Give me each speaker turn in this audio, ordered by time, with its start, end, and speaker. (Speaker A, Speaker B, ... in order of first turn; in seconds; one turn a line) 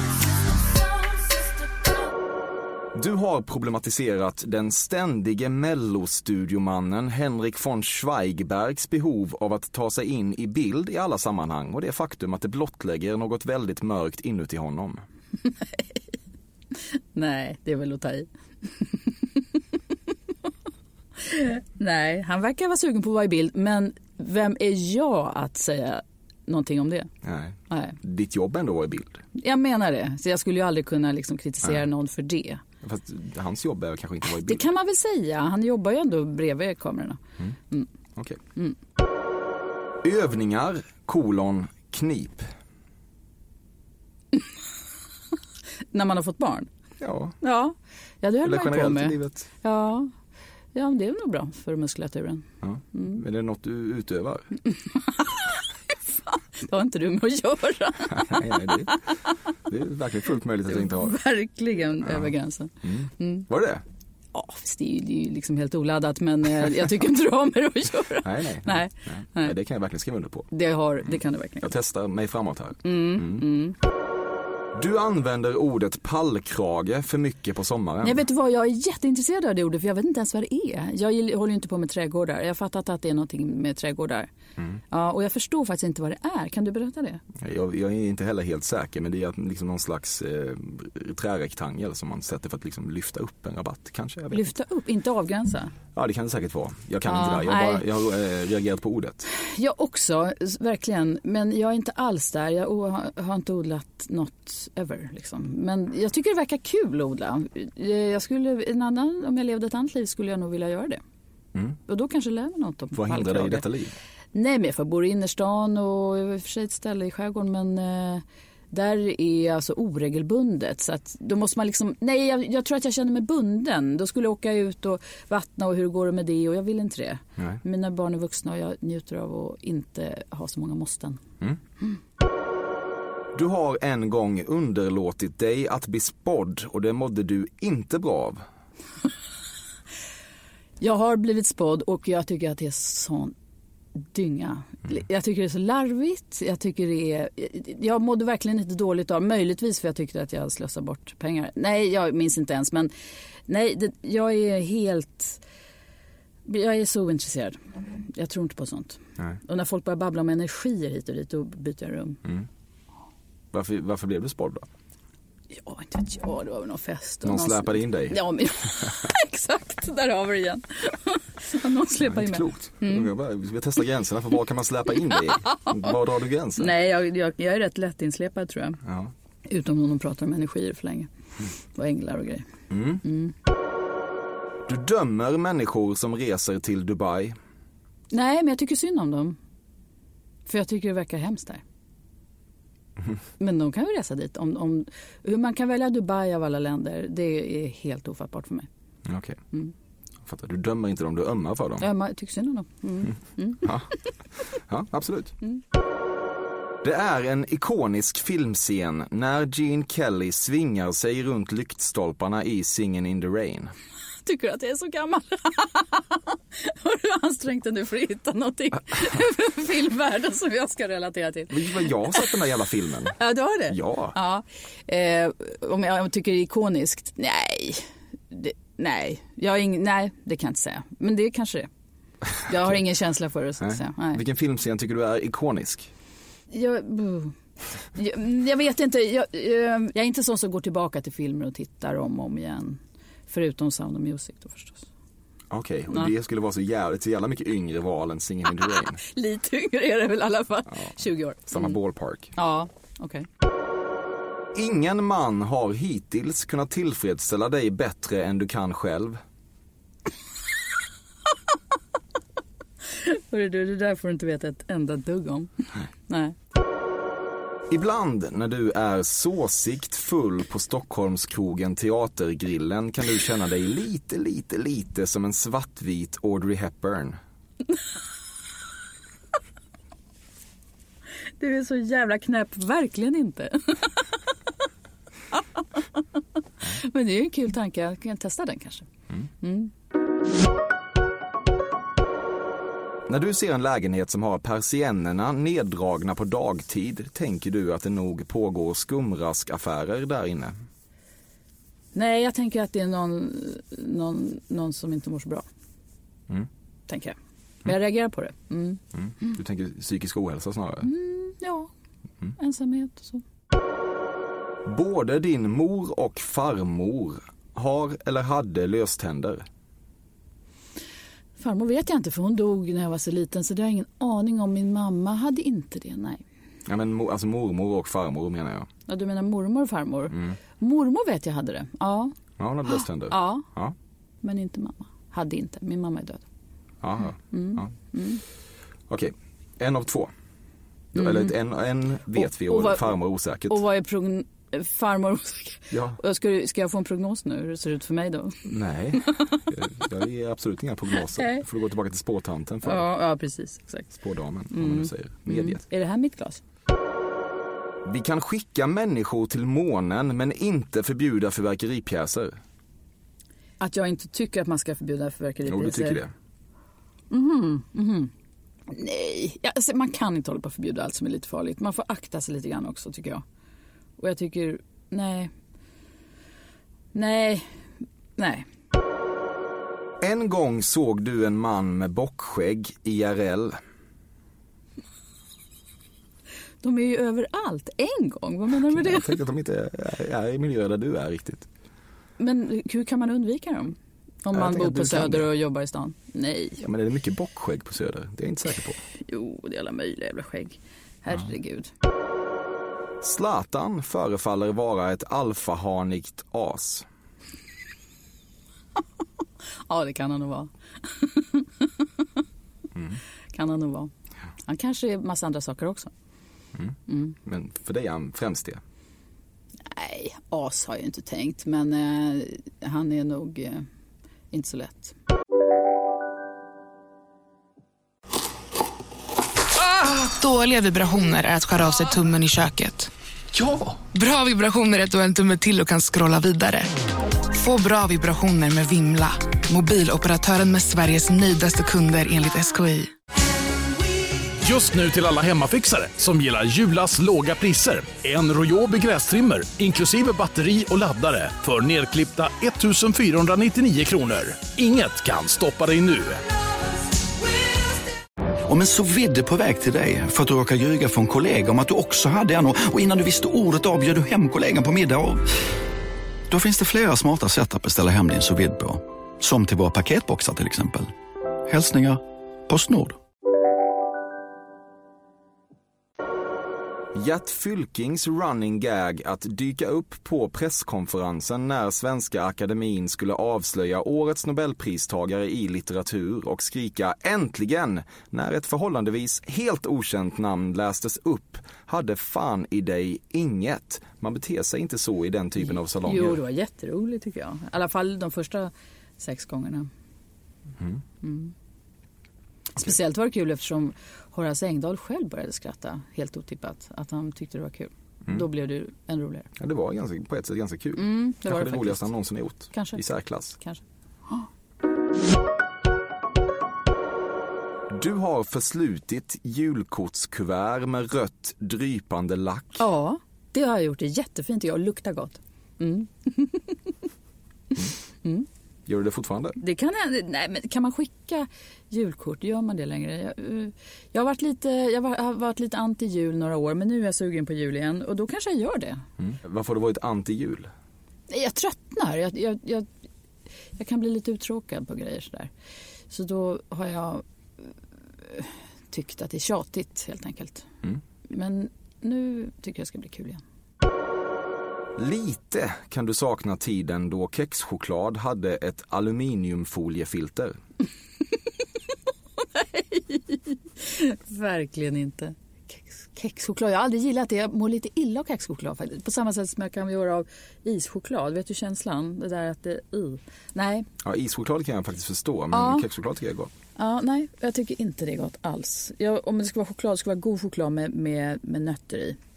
Speaker A: 2.9-15.0
Speaker B: 15.5-16.0
Speaker B: 17.1-19.1
Speaker B: 21.2-27.1
Speaker A: 27.2-29.2
Speaker B: 27.7-28.0
Speaker B: 29.3-32.6
Speaker A: 32.8-34.6
Speaker B: 34.3-37.2
Speaker A: 40.0-42.5
Speaker B: 45.9-46.7
Speaker A: 47.0-47.4
Speaker B: 47.4-50.1
Speaker A: 48.4-49.5
Speaker B: 50.7-53.2
Speaker A: 52.6-54.5
Speaker B: 54.9-59.3
Speaker A: 58.1-59.0
Speaker A: 59.7-61.2
Speaker B: 60.7-63.5
Speaker A: 62.0-62.3
Speaker A: 62.8-63.8
Speaker B: 64.3-69.5
Speaker A: 68.2-70.5
Speaker B: 70.5-71.7
Speaker A: 71.6-73.5
Speaker B: 72.8-73.8
Speaker A: 74.7-78.2
Speaker B: 78.0-84.3
Speaker B: 84.9-87.2
Speaker A: 87.4-94.5
Speaker B: 94.3-95.7
Speaker A: 96.0-99.2
Speaker B: 97.1-97.8
Speaker B: 99.3-111.0
Speaker B: 111.9-113.7
Speaker A: 113.0-113.9
Speaker B: 114.3-131.2
Speaker A: 133.3-138.4
Speaker B: 140.8-143.3
Speaker B: 144.1-152.9
Speaker B: 153.5-155.4
Speaker B: 156.5-162.2
Speaker A: 163.5-164.7
Speaker B: 165.5-173.1
Speaker A: 167.2-168.2
Speaker A: 172.0-176.7
Speaker B: 175.1-175.9
Speaker B: 176.6-178.8
Speaker A: 178.8-179.1
Speaker B: 179.5-181.1
Speaker B: 181.7-182.5
Speaker A: 182.7-183.0
Speaker B: 183.0-183.3
Speaker A: 184.7-187.4
Speaker B: 188.1-189.4
Speaker B: 190.5-191.6
Speaker B: 193.4-198.7
Speaker A: 199.1-199.4
Speaker A: 200.2-201.9
Speaker B: 201.8-203.7
Speaker A: 203.6-203.9
Speaker A: 204.6-205.4
Speaker A: 206.8-213.7
Speaker B: 214.2-222.3
Speaker A: 221.5-223.2
Speaker B: 223.2-231.7
Speaker A: 223.7-224.2
Speaker B: 232.5-234.2
Speaker A: 233.6-235.9
Speaker B: 236.5-237.3
Speaker B: 237.9-244.9
Speaker A: 245.5-249.0
Speaker B: 248.6-251.8
Speaker A: 251.5-252.3
Speaker B: 252.3-253.3
Speaker A: 254.6-259.2
Speaker B: 262.9-266.4
Speaker A: 267.7-277.2
Speaker B: 281.4-284.1
Speaker B: 286.7-288.9
Speaker B: 289.4-289.7
Speaker A: 293.1-300.6
Speaker B: 301.9-305.4
Speaker B: 306.9-309.3
Speaker A: 308.9-310.9
Speaker B: 310.8-311.7
Speaker B: 312.4-313.2
Speaker A: 314.7-319.5
Speaker B: 321.4-326.2
Speaker A: 326.7-328.7
Speaker B: 328.9-332.1
Speaker A: 330.1-330.4
Speaker A: 332.4-333.8
Speaker B: 332.8-333.4
Speaker B: 334.2-336.2
Speaker A: 336.8-337.7
Speaker B: 337.3-338.2
Speaker A: 338.9-340.1
Speaker B: 340.9-341.3
Speaker A: 340.9-343.6
Speaker B: 342.2-343.0
Speaker B: 343.5-348.5
Speaker A: 345.7-346.0
Speaker A: 348.5-352.9
Speaker B: 351.0-351.4
Speaker B: 352.6-353.9
Speaker A: 354.0-355.6
Speaker B: 354.5-356.4
Speaker A: 357.9-362.4
Speaker B: 363.6-366.0
Speaker A: 365.5-366.1
Speaker B: 367.1-368.1
Speaker B: 368.7-373.2
Speaker B: 374.0-375.3
Speaker B: 376.9-377.5
Speaker B: 378.2-378.5
Speaker A: 380.0-383.6
Speaker B: 386.6-389.1
Speaker A: 388.7-391.5
Speaker B: 392.2-396.6
Speaker A: 394.3-395.3
Speaker A: 396.6-398.8
Speaker B: 399.1-401.7
Speaker A: 403.0-406.9
Speaker B: 409.7-411.9
Speaker B: 413.3-413.9
Speaker B: 414.4-415.9
Speaker A: 416.6-418.6
Speaker B: 416.9-417.2
Speaker B: 419.7-423.7
Speaker B: 424.3-424.9
Speaker C: 429.6-432.9
Speaker D: 433.3-433.8
Speaker C: 433.8-436.7
Speaker C: 437.3-442.9
Speaker E: 444.4-456.2
Speaker D: 458.4-465.3
Speaker D: 466.3-470.9
Speaker D: 471.5-473.0
Speaker A: 476.9-496.2
Speaker B: 495.4-499.7
Speaker B: 501.0-501.3
Speaker B: 502.6-509.3
Speaker A: 509.4-513.4
Speaker B: 510.8-511.9
Speaker B: 512.5-512.8
Speaker A: 517.7-522.6
Speaker B: 522.6-526.7
Speaker A: 528.7-529.4
Speaker B: 529.4-538.8
Speaker A: 539.0-540.5
Speaker B: 541.1-542.7
Speaker B: 543.6-545.3
Speaker B: 545.9-547.5
Speaker B: 548.0-550.5
Speaker B: 551.1-553.2
Speaker A: 554.8-560.4
Speaker B: 562.4-573.7
Speaker A: 573.8-576.3
Speaker B: 575.3-575.6
Speaker B: 576.6-582.0